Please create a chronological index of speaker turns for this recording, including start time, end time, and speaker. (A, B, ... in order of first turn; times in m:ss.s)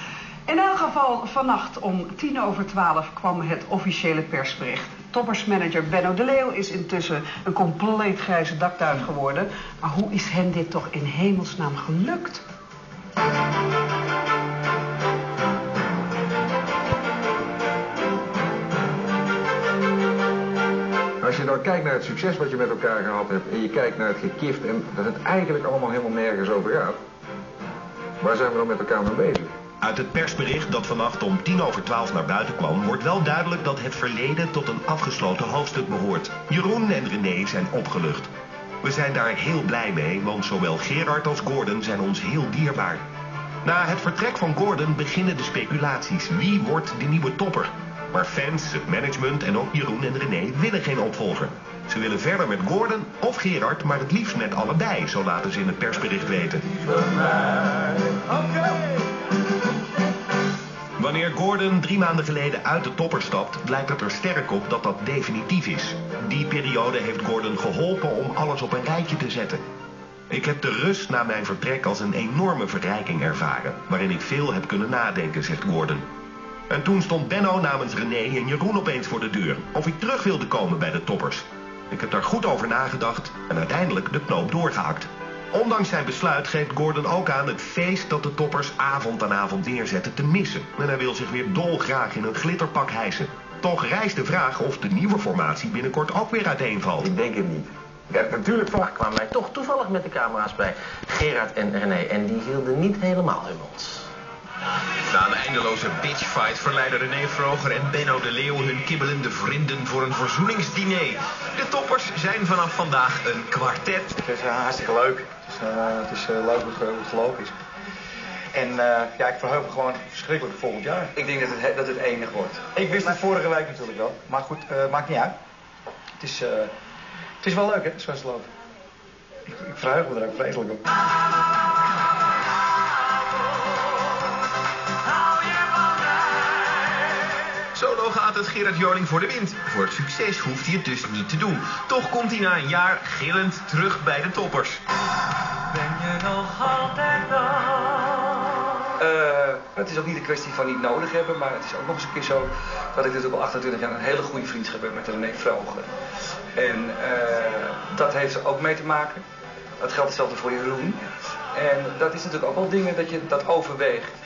0:00.5-0:12.4 A
0:21.2-0:27.0 B
0:28.2-0:29.5 B
0:29.8-0:38.3 C
0:38.8-0:43.0 C
0:43.6-0:56.6 C
1:01.0-1:09.6 C
1:10.3-1:16.0 C
1:16.7-1:37.1 C
1:37.2-1:38.6 B
1:38.6-1:44.0 D
1:45.1-1:54.1 E
1:54.2-1:57.5 F
1:58.5-2:05.3 F
2:01.8-2:02.6 G
2:06.2-2:06.7 F
2:07.4-2:08.5 F
2:09.5-2:10.8 F
2:17.7-2:24.8 E
2:29.0-2:29.8 F
2:29.1-2:32.5 G
2:33.0-2:35.7 F
2:33.0-2:35.8 G
2:36.6-2:37.0 F
2:37.0-2:39.2 G
2:38.0-2:38.9 F
2:39.8-2:40.1 F
2:39.8-2:41.0 G
2:41.6-2:44.1 G